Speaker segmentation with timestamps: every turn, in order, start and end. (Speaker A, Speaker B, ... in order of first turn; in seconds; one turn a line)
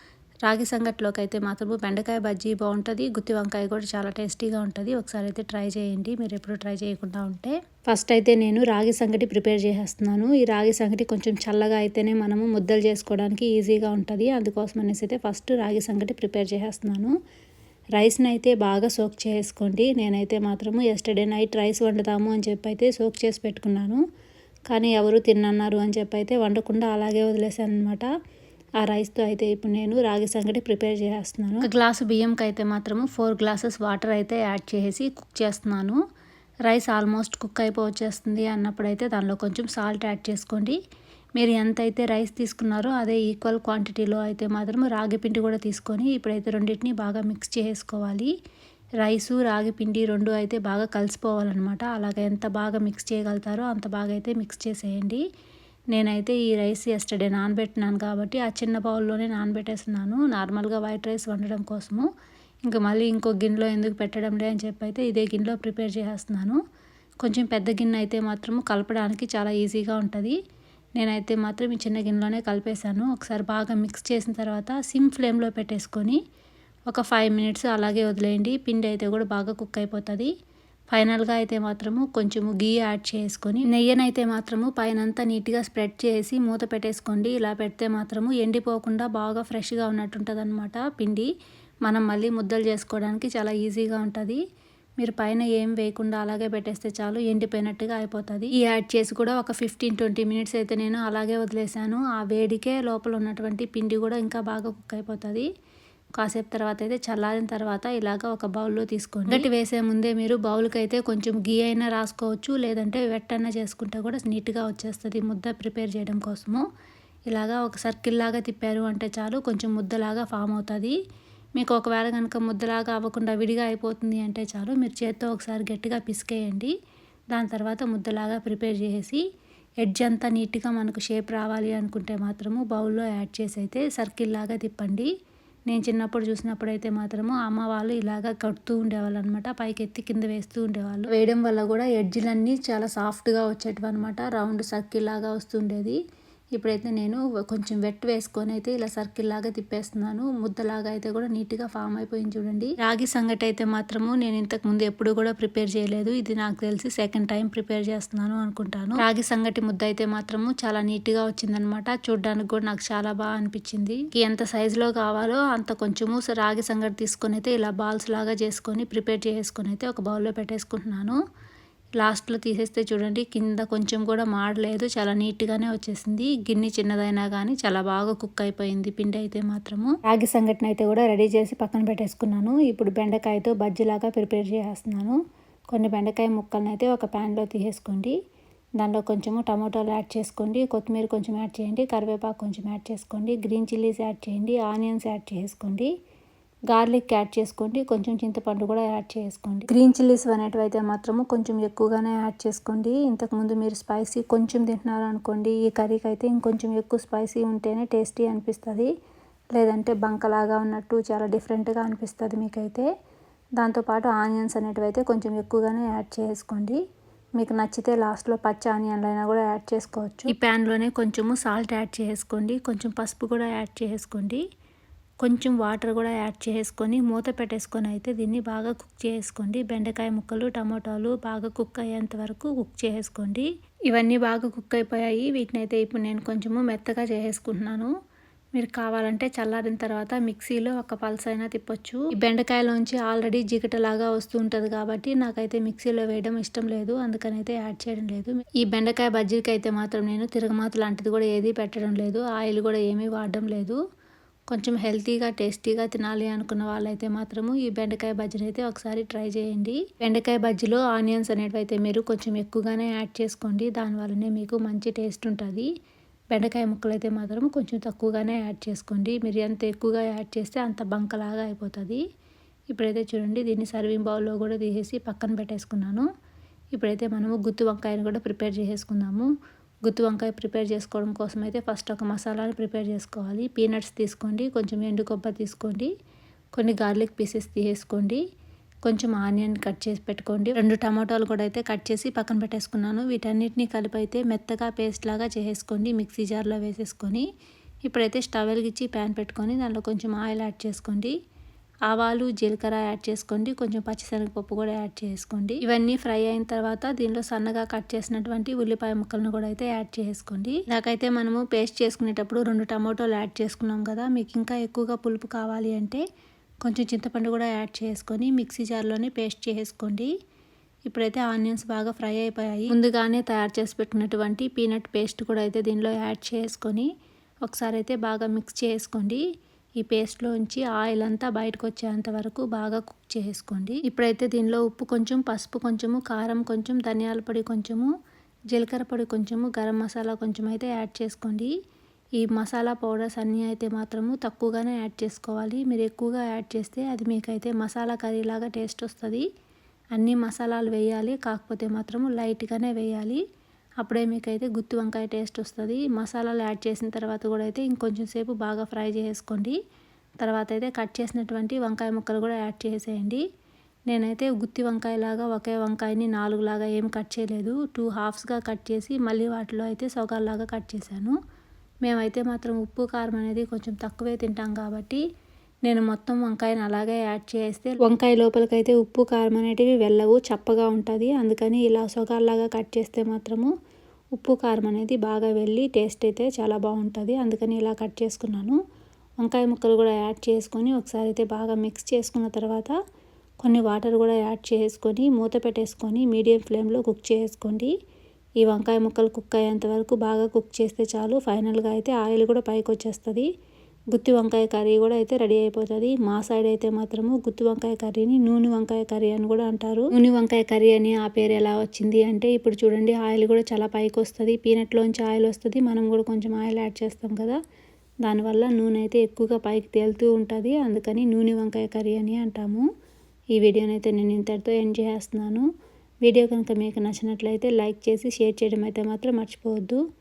Speaker A: 0.4-17.1
Speaker A: 17.9-24.0
Speaker A: 24.7-28.1
Speaker A: 28.8-36.0
Speaker A: 36.7-40.8
Speaker A: 41.4-48.3
Speaker A: 49.0-55.2
Speaker A: 55.9-62.1
Speaker A: 62.6-66.6
Speaker A: 67.2-70.4
Speaker A: 71.0-76.2
Speaker A: 76.9-80.3
Speaker A: 80.9-91.3
Speaker A: 91.8-94.4
Speaker A: 95.0-105.5
Speaker A: 106.2-116.6
Speaker A: 117.3-121.0
Speaker A: 121.5-126.7
Speaker A: 127.3-129.2
Speaker A: 129.8-135.1
Speaker A: 135.7-146.0
Speaker A: 146.5-171.2
Speaker A: 172.0-185.2
Speaker A: 185.7-188.2
Speaker A: 188.8-195.9
Speaker A: 196.7-208.9
Speaker A: 209.5-212.9
Speaker A: 213.6-216.8
Speaker A: 217.3-224.4
Speaker A: 225.2-237.9
Speaker A: 238.5-253.8
Speaker A: 254.5-265.7
Speaker A: 266.3-272.0
Speaker A: 272.7-276.1
Speaker A: 276.7-279.3
Speaker A: 279.8-285.9
Speaker A: 286.5-288.2
Speaker A: 288.8-297.3
Speaker A: 297.9-301.1
Speaker A: 301.9-316.0
Speaker A: 316.6-320.1
Speaker A: 320.9-326.9
Speaker A: 327.4-329.2
Speaker A: 329.8-337.9
Speaker A: 338.5-341.5
Speaker A: 342.2-349.2
Speaker A: 349.9-353.2
Speaker A: 353.8-359.6
Speaker A: 360.2-363.2
Speaker A: 363.9-371.2
Speaker A: 371.8-375.0
Speaker A: 375.6-383.5
Speaker A: 384.1-388.6
Speaker A: 389.2-392.8
Speaker A: 393.4-397.7
Speaker A: 398.4-403.3
Speaker A: 403.9-417.4
Speaker A: 418.0-422.6
Speaker A: 423.3-425.5
Speaker A: 426.0-429.8